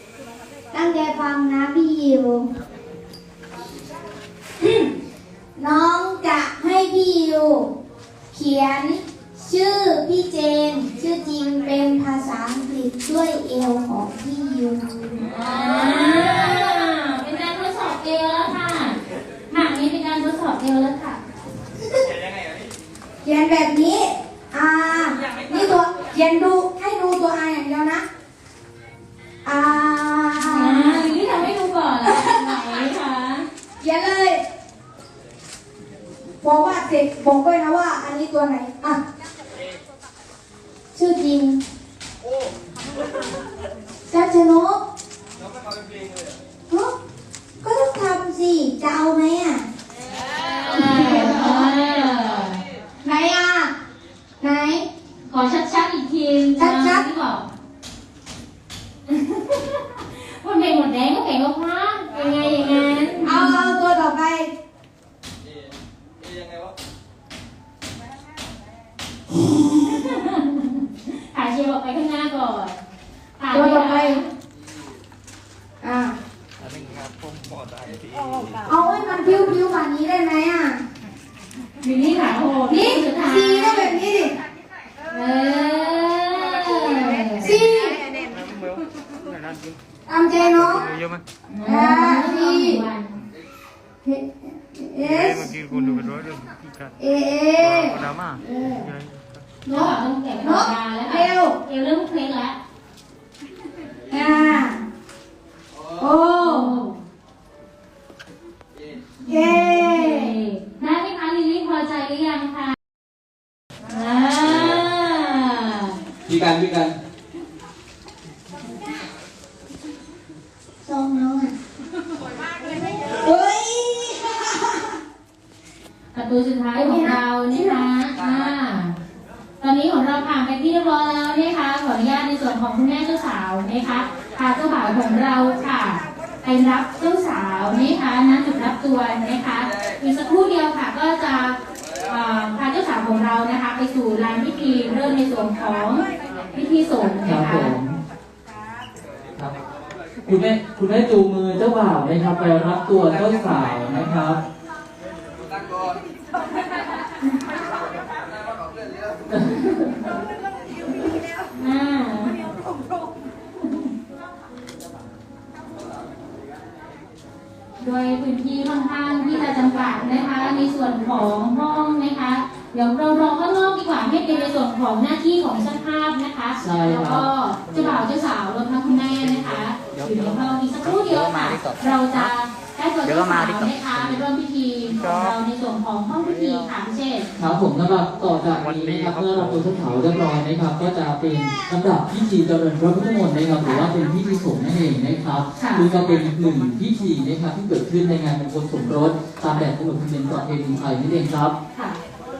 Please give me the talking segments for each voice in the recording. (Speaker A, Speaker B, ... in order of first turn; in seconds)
Speaker A: 0.7-2.5, 4.6-4.9, 5.6-7.7, 8.3-16.2, 23.2-28.0, 29.4-31.1, 32.1-32.6, 33.8-34.4, 36.4-39.0, 40.9-41.6, 44.1-44.8, 46.7-46.9, 47.6-49.7, 50.7-51.7, 53.0-53.7, 54.4-54.9, 56.6-57.1, 63.2-64.5, 73.5-74.2, 75.8-76.2, 78.7-80.8, 82.7-84.3, 87.4-88.0, 90.1-90.9, 91.6-92.8, 94.0-96.1, 97.0-98.9, 99.7-101.6, 104.1-104.8, 105.9-106.8, 109.3-110.3, 120.8-121.5, 123.1-125.0, 126.8-127.9
Speaker B: 15.3-19.0, 19.5-21.2, 30.5-33.5, 50.4-52.6, 55.3-57.5, 59.1-63.8, 69.7-72.8, 73.4-74.3, 81.8-84.0, 85.1-87.5, 91.5-93.2, 99.7-102.5, 106.4-107.0, 109.2-112.8, 113.9-116.0, 126.1-129.0, 129.6-147.8, 161.6-162.4, 167.8-187.3, 193.6-193.9, 195.6-195.9, 201.7-202.0
Speaker C: 96.2-96.5, 116.4-116.7, 181.1-181.8, 183.1-184.2
Speaker D: 116.3-117.0, 147.2-148.0, 150.3-154.4, 159.3-159.6, 176.6-177.3, 181.2-181.5, 187.4-201.6